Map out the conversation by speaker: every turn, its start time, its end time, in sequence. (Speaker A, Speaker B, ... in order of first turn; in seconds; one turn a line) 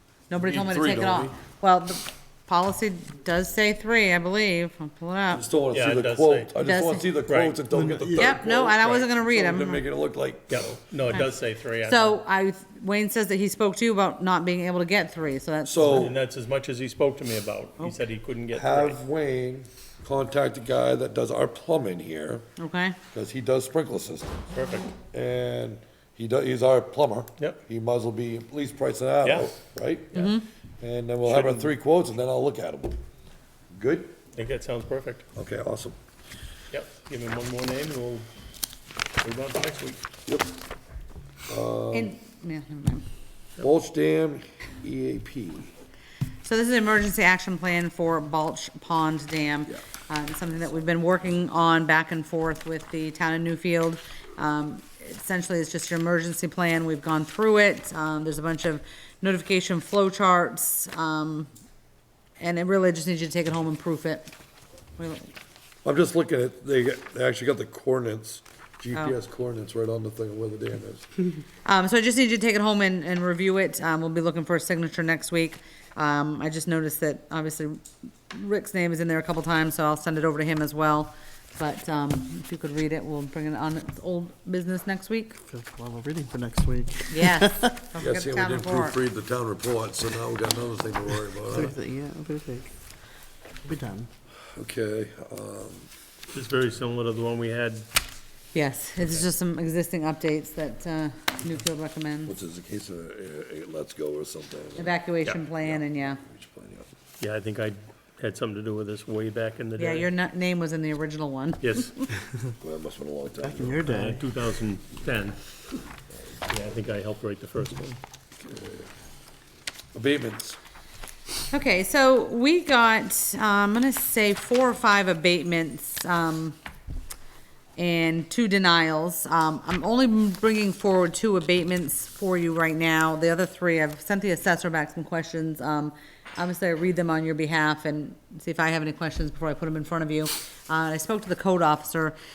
Speaker A: 0.3-5.5
Speaker B: 0.4-1.3
Speaker B: 5.3-10.8
Speaker C: 5.7-6.5
Speaker A: 6.6-7.1
Speaker C: 7.3-9.1
Speaker A: 8.2-9.8
Speaker C: 10.5-12.2
Speaker A: 11.8-16.1
Speaker B: 15.7-16.2
Speaker C: 15.9-19.0
Speaker B: 18.5-22.4
Speaker A: 22.6-23.0
Speaker B: 23.1-24.4
Speaker C: 24.5-24.9
Speaker B: 25.0-30.2
Speaker C: 29.2-29.5
Speaker A: 30.1-30.4
Speaker B: 30.8-33.0
Speaker C: 31.3-31.7
Speaker B: 33.7-34.1
Speaker C: 34.4-35.2
Speaker B: 35.4-36.0
Speaker C: 36.7-38.3
Speaker C: 39.2-40.0
Speaker B: 41.5-42.1
Speaker A: 41.9-43.0
Speaker B: 43.6-45.7
Speaker A: 46.5-61.5
Speaker A: 62.4-64.3
Speaker A: 65.0-65.3
Speaker B: 65.8-71.0
Speaker A: 71.7-85.4
Speaker D: 85.5-87.8
Speaker A: 87.1-89.0
Speaker B: 88.0-91.8
Speaker D: 91.5-92.7
Speaker D: 93.7-94.1
Speaker B: 94.5-95.9
Speaker C: 96.3-97.9
Speaker A: 98.5-102.4
Speaker B: 102.3-106.9
Speaker A: 104.8-106.2
Speaker C: 107.2-110.1
Speaker A: 109.8-112.1
Speaker C: 111.6-112.0
Speaker B: 112.6-113.8
Speaker D: 113.4-114.2
Speaker C: 113.8-115.4
Speaker C: 116.5-118.0
Speaker B: 118.4-118.9
Speaker B: 119.9-120.6
Speaker A: 121.5-126.6
Speaker A: 127.8-142.2